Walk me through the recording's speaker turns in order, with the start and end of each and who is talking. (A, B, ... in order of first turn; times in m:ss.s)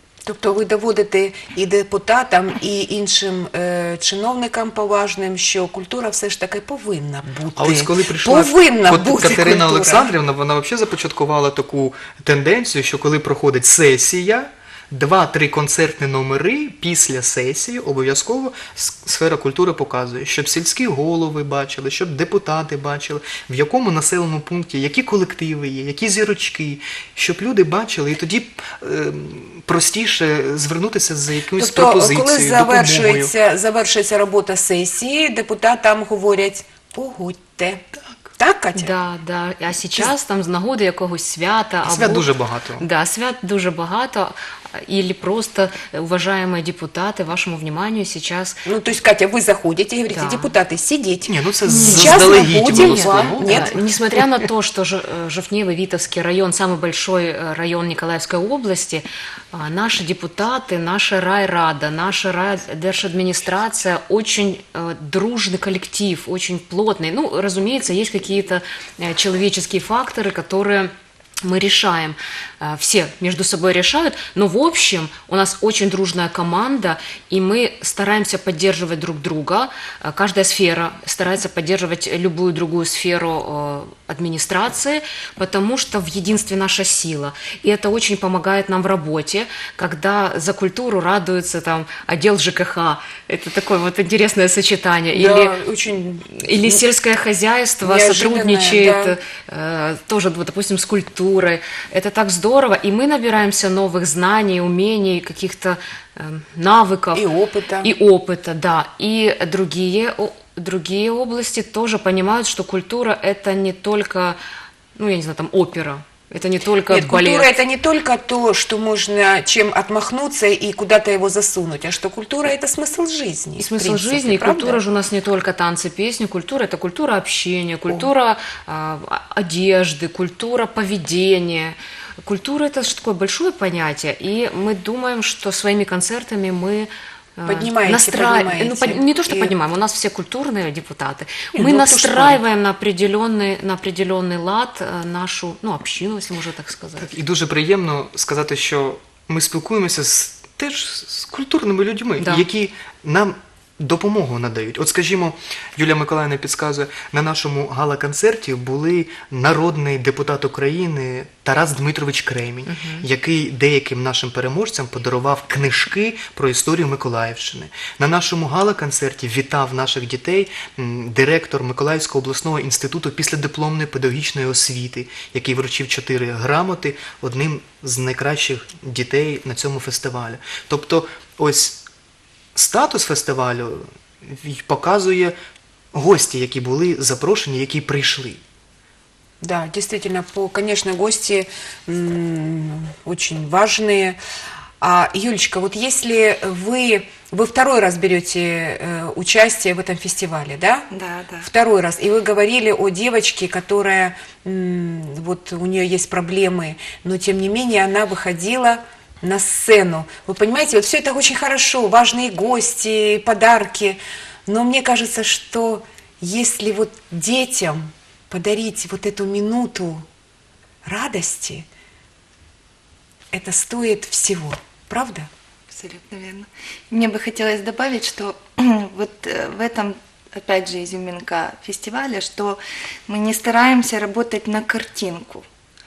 0:00.2-0:10.1 A
0:07.6-0:33.3 B
0:31.6-0:37.8 A
0:38.4-0:38.9 A
0:38.7-0:42.3 C
0:41.8-0:42.8 B
0:42.8-0:48.6 C
0:48.6-0:53.8 A
0:50.1-0:50.5 C
0:51.2-0:53.8 B
0:51.7-1:35.6 C
1:35.1-1:36.8 A
1:36.3-1:47.2 C
1:37.8-1:39.2 A
1:47.1-1:47.9 A
1:47.8-1:54.4 C
1:55.0-1:57.5 C
1:56.9-2:04.8 A
2:03.6-2:27.1 C
2:17.4-2:19.5 A
2:21.5-2:22.4 A
2:27.0-3:01.8 B
2:32.2-2:32.4 C
2:42.6-2:43.1 C
3:02.5-3:05.4 B
3:05.9-3:08.4 B
3:09.4-3:14.2 A
3:14.8-3:20.9 A
3:20.9-3:21.4 D
3:21.4-3:40.0 A
3:40.8-3:41.7 A
3:43.3-3:45.3 A
3:45.7-3:55.4 D